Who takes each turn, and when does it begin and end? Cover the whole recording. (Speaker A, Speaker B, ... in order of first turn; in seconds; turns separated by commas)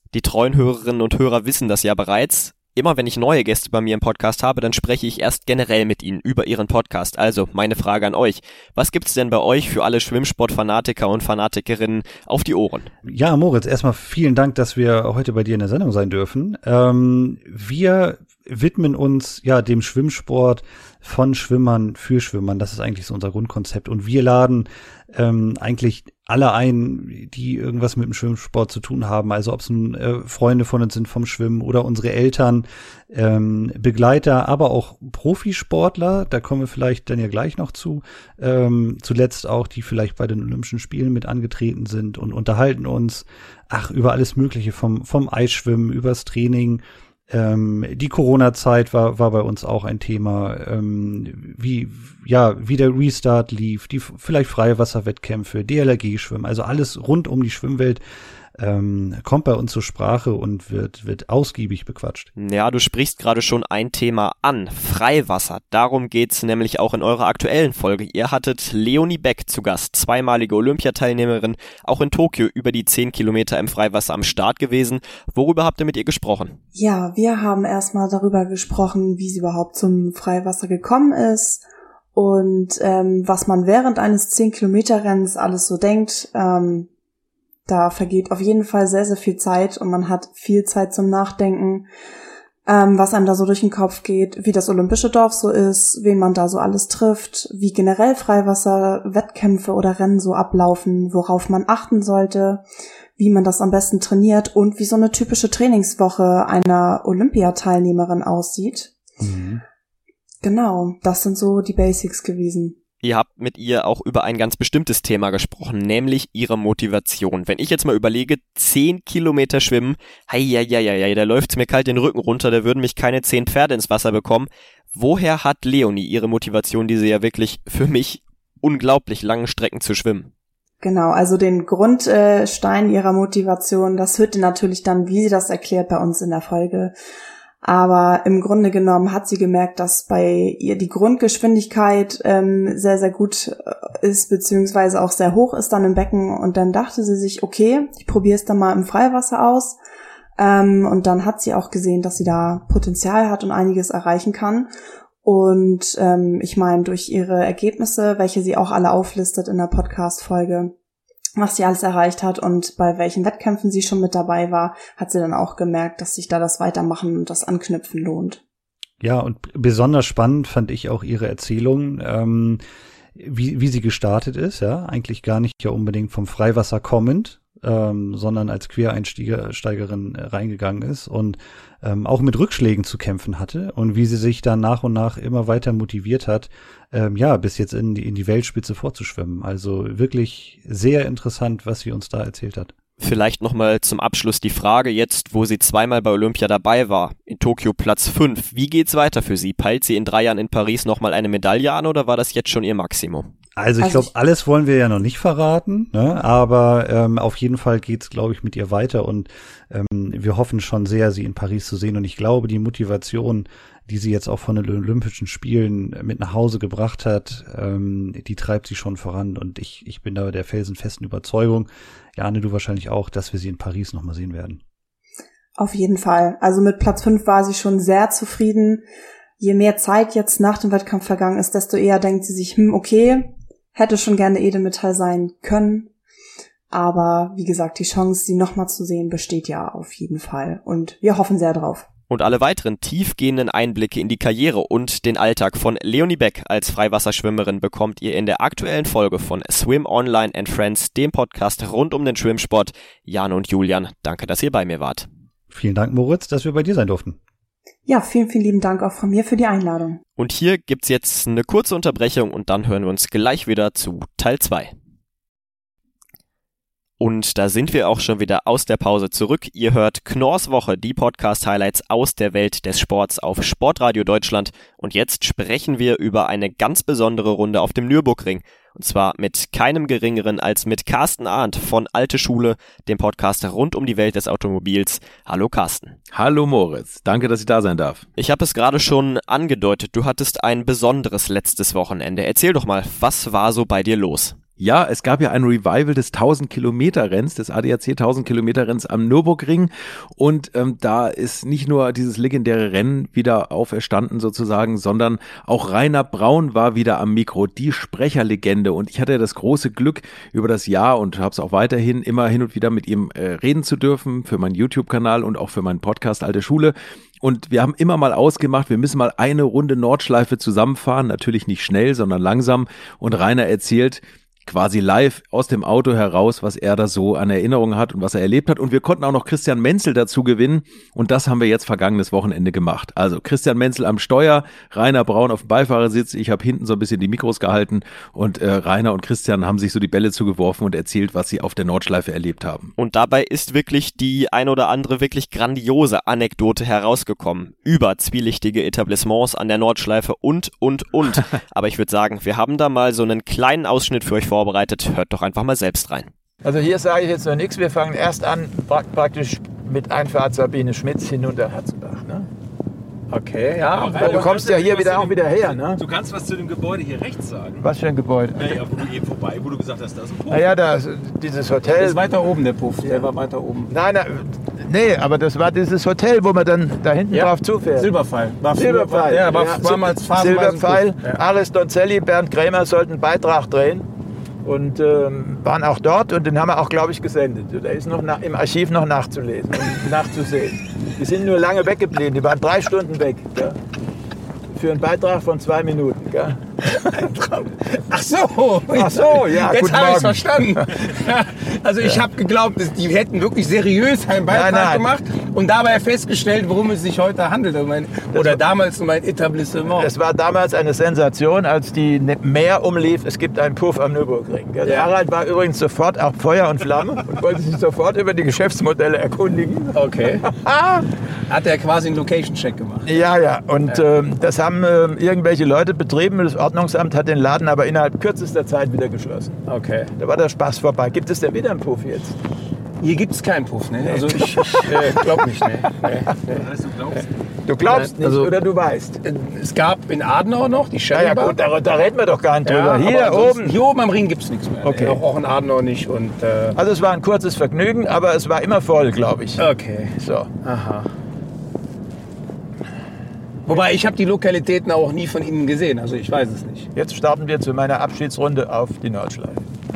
Speaker A: 0.1-12.9, Speaker B: 13.0-58.0, Speaker B: 58.6-62.3, Speaker A: 62.4-76.5, Speaker C: 76.7-81.6, Speaker C: 82.1-86.9, Speaker C: 87.7-91.9, Speaker C: 92.7-102.6, Speaker C: 103.2-109.0, Speaker B: 109.2-109.6, Speaker C: 110.4-112.7, Speaker A: 113.0-130.3, Speaker C: 130.8-136.9, Speaker C: 137.6-149.8, Speaker C: 150.4-154.7, Speaker C: 155.2-160.7, Speaker C: 161.4-168.4, Speaker B: 169.0-172.6, Speaker B: 173.2-192.7, Speaker A: 193.0-203.2, Speaker B: 203.6-224.6, Speaker C: 203.8-204.1, Speaker C: 225.6-228.8, Speaker C: 229.4-235.9, Speaker C: 236.7-241.8, Speaker A: 242.1-255.1, Speaker B: 255.5-257.2, Speaker C: 257.9-260.0, Speaker A: 260.2-264.7, Speaker A: 267.0-285.9, Speaker D: 286.1-288.1, Speaker A: 288.1-294.3, Speaker D: 294.6-342.7, Speaker A: 342.8-356.1, Speaker E: 356.4-362.3, Speaker F: 363.1-364.2, Speaker D: 363.7-367.7, Speaker E: 364.0-365.8, Speaker E: 367.6-368.6, Speaker D: 368.3-370.5, Speaker E: 370.3-372.0, Speaker F: 371.6-373.7, Speaker E: 373.7-377.9, Speaker F: 377.1-381.2, Speaker E: 378.5-383.9, Speaker E: 384.4-393.6, Speaker E: 394.5-396.4, Speaker F: 396.6-409.9, Speaker E: 398.7-400.8, Speaker E: 404.2-404.9, Speaker E: 408.1-408.4, Speaker E: 409.6-420.8, Speaker F: 414.6-414.9, Speaker F: 419.7-420.2, Speaker F: 421.3-423.0, Speaker E: 422.8-429.4, Speaker F: 429.4-429.9, Speaker E: 430.0-432.1, Speaker F: 432.8-436.4, Speaker E: 433.9-435.5, Speaker D: 436.4-437.1, Speaker E: 437.4-439.0, Speaker F: 437.7-438.3, Speaker F: 439.0-441.4, Speaker E: 440.9-443.6, Speaker F: 442.4-446.6, Speaker E: 444.6-445.0, Speaker E: 446.6-450.3, Speaker F: 449.4-450.9, Speaker F: 453.5-456.7, Speaker E: 456.7-459.4